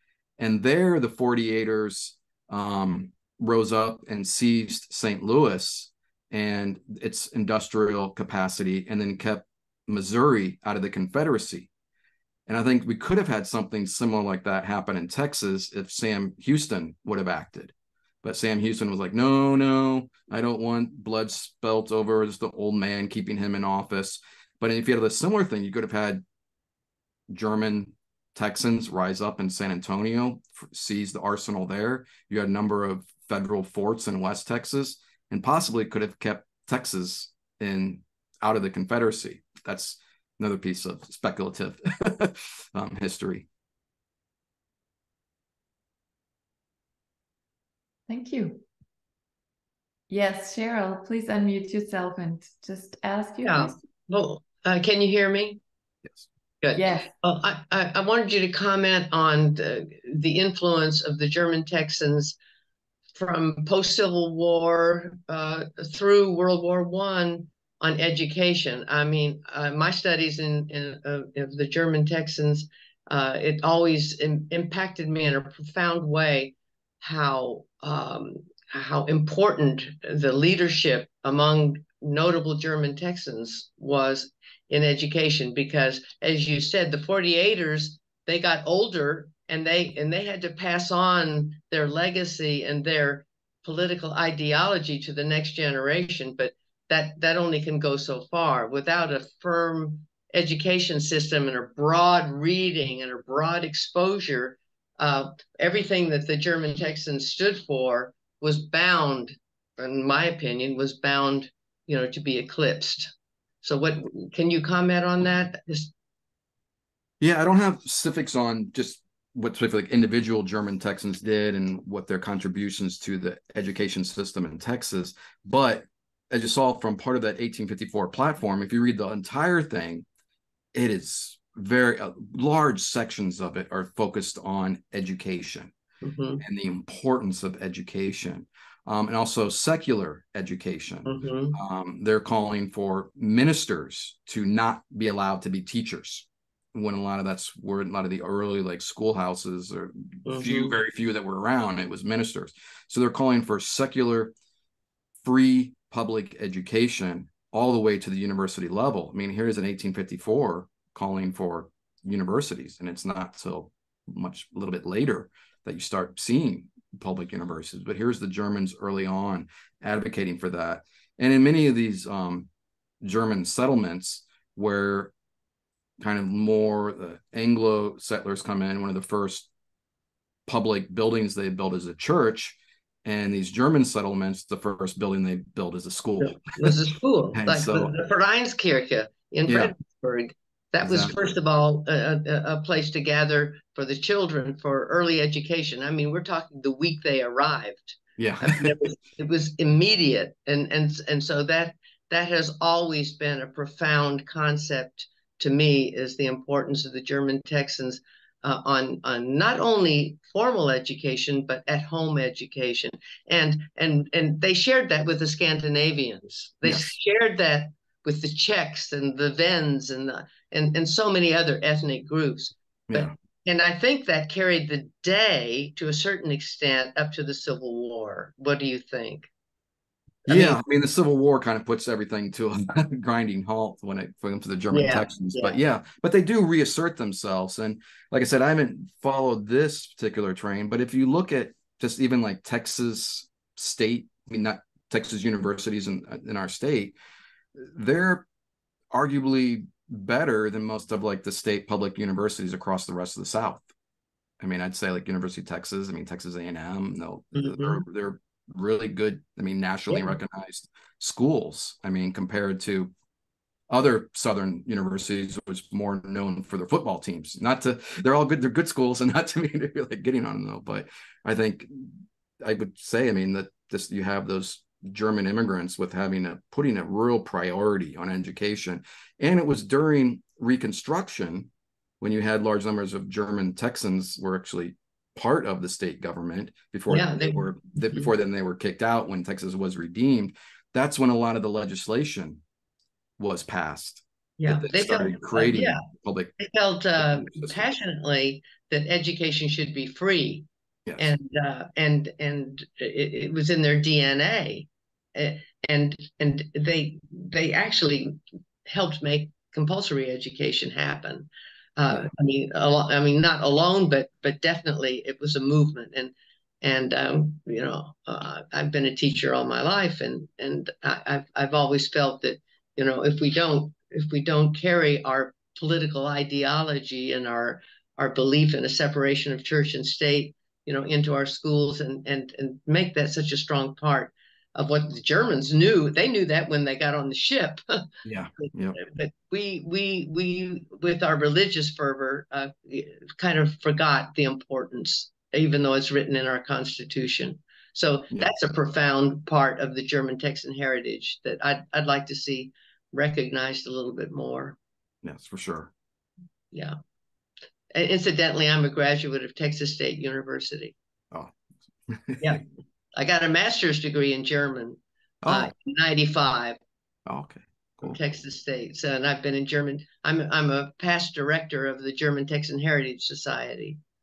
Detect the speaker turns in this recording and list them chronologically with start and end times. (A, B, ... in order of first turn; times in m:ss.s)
0:00.4-0:11.7 A
0:12.5-0:26.2 A
0:27.3-0:43.5 A
0:48.1-0:48.6 B
0:50.1-0:53.8 B
0:53.4-0:55.6 C
0:56.6-1:02.4 C
0:56.7-0:57.1 B
1:03.1-1:53.1 C
1:53.6-1:55.9 C
1:57.2-2:10.0 A
2:10.7-2:15.7 A
2:16.0-2:16.4 C
2:16.4-2:34.3 A
2:21.0-2:21.6 C
2:30.2-2:30.8 C
2:35.2-2:52.5 A
2:53.0-2:55.1 A
2:56.0-2:59.5 A
3:00.5-3:06.8 A
3:06.2-3:49.3 C
3:07.3-3:07.9 A
3:09.5-3:09.7 A
3:10.8-3:11.2 A
3:18.2-3:18.8 A
3:36.6-3:36.9 A
3:50.2-3:50.6 C
3:50.3-4:07.0 A
3:54.7-3:55.6 C
4:07.6-4:08.2 A
4:08.9-4:13.6 A
4:14.4-4:22.9 A
4:17.3-4:17.8 C
4:23.7-4:41.5 A
4:42.0-4:52.4 A
4:46.9-4:48.1 C
4:53.2-4:56.3 A
4:54.4-4:55.8 C
4:56.4-5:37.8 C
4:57.0-4:57.6 A
5:00.9-5:01.1 A
5:38.0-5:38.8 A
5:38.8-5:54.6 C
5:48.1-5:48.4 A
5:55.0-5:55.7 A
5:56.5-5:56.8 C
5:57.7-6:00.7 C
6:01.9-6:02.4 A
6:02.9-6:06.6 C
6:05.2-6:05.5 A
6:07.0-6:08.2 A
6:07.8-6:13.8 C